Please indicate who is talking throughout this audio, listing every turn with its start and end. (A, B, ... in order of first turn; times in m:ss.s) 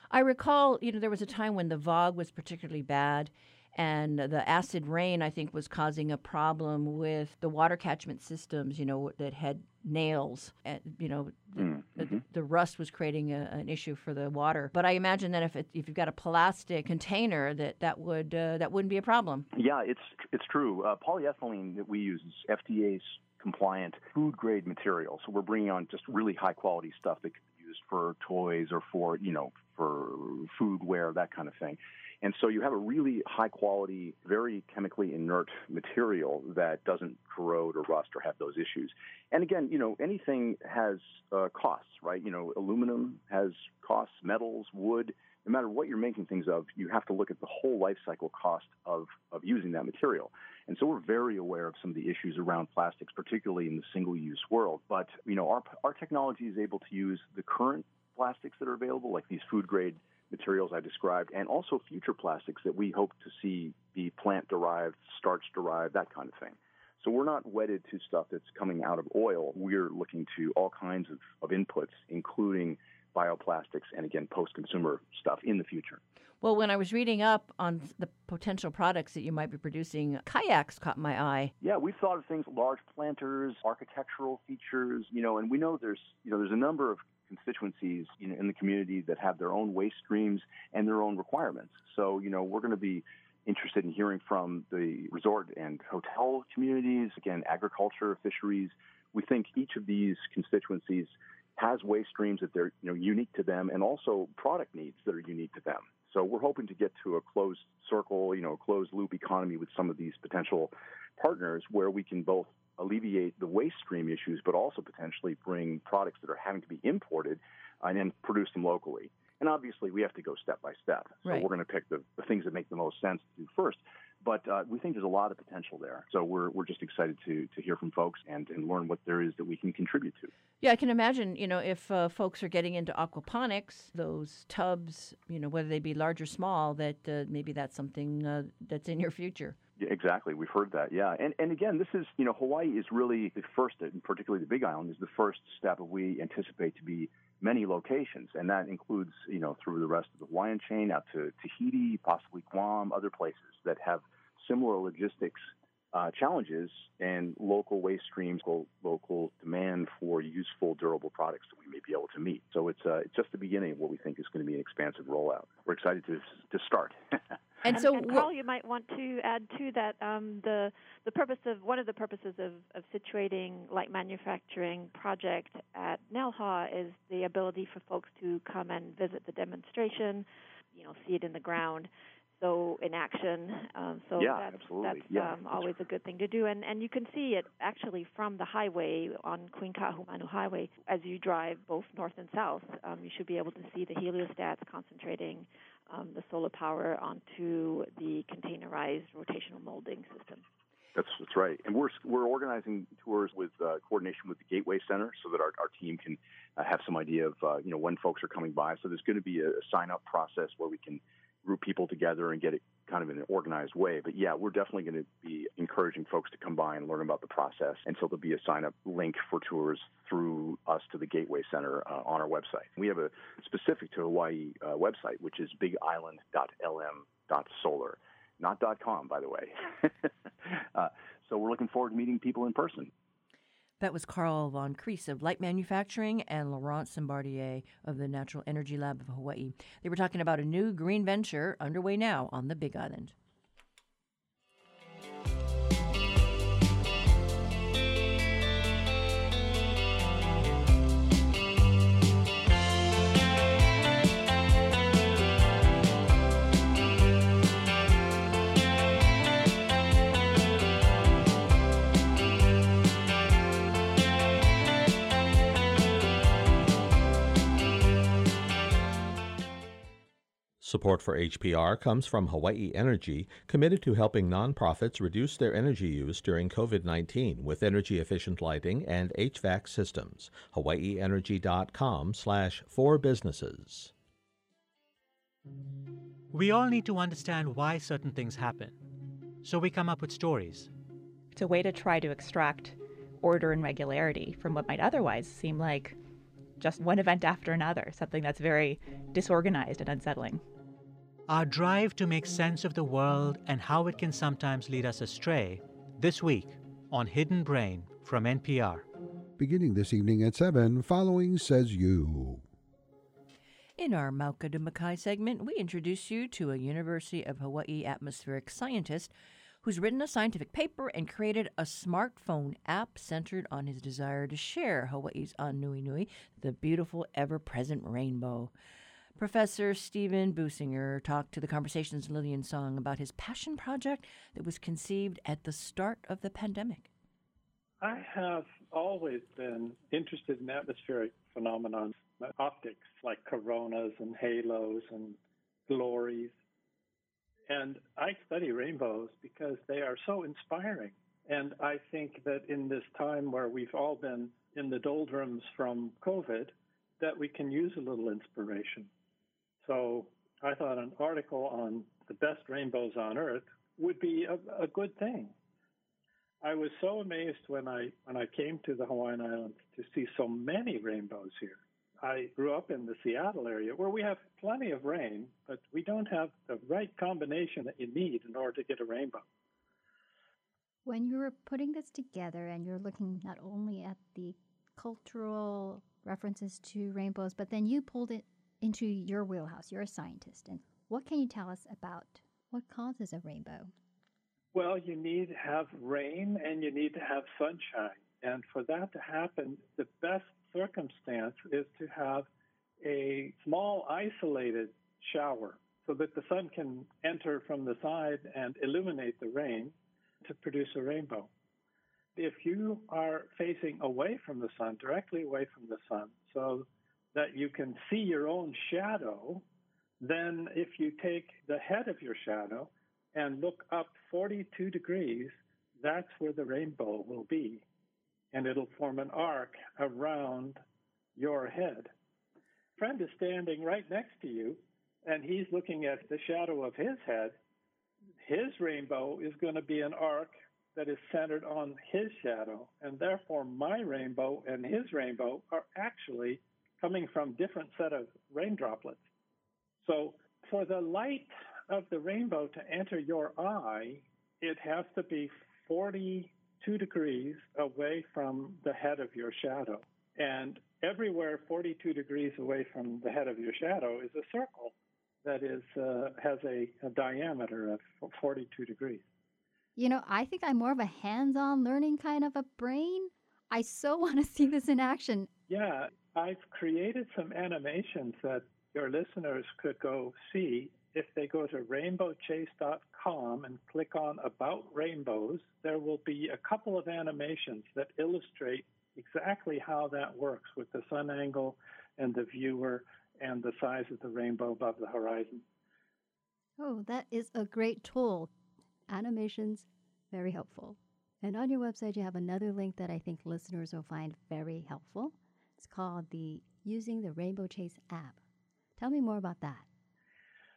0:00.1-0:19.5 A
0:11.6-0:12.2 B
0:19.5-1:16.0 B
1:16.4-1:21.5 A
1:21.6-2:10.3 B
2:10.6-2:19.6 A
2:19.8-2:47.0 B
2:47.6-2:48.3 A
2:47.7-3:20.4 C
3:04.2-3:05.8 B
3:20.9-3:52.9 B
3:53.8-4:03.1 A
4:30.6-4:43.9 D
4:46.3-4:48.8 E
4:49.4-4:50.7 E
4:51.3-4:56.0 F
4:56.6-5:00.4 F
5:01.3-5:08.8 E
5:09.4-5:12.4 G
5:13.8-5:19.1 A
5:19.6-5:28.5 A
5:29.2-5:36.9 A
5:37.8-5:46.3 H
5:47.5-5:58.9 H
5:59.6-6:05.3 H
6:06.4-6:19.2 H
6:20.8-6:33.7 I
6:34.5-6:42.3 H
6:42.8-6:51.3 H
6:52.1-6:59.4 H
7:00.0-7:07.6 H
7:08.3-7:10.6 H
7:11.2-7:11.9 H
7:12.8-7:17.4 H
7:18.2-7:29.0 H
7:29.8-7:49.0 H
7:49.8-7:55.3 I
7:55.5-8:15.4 H
8:16.6-8:18.3 I
8:18.9-8:28.2 I
8:28.8-8:29.6 I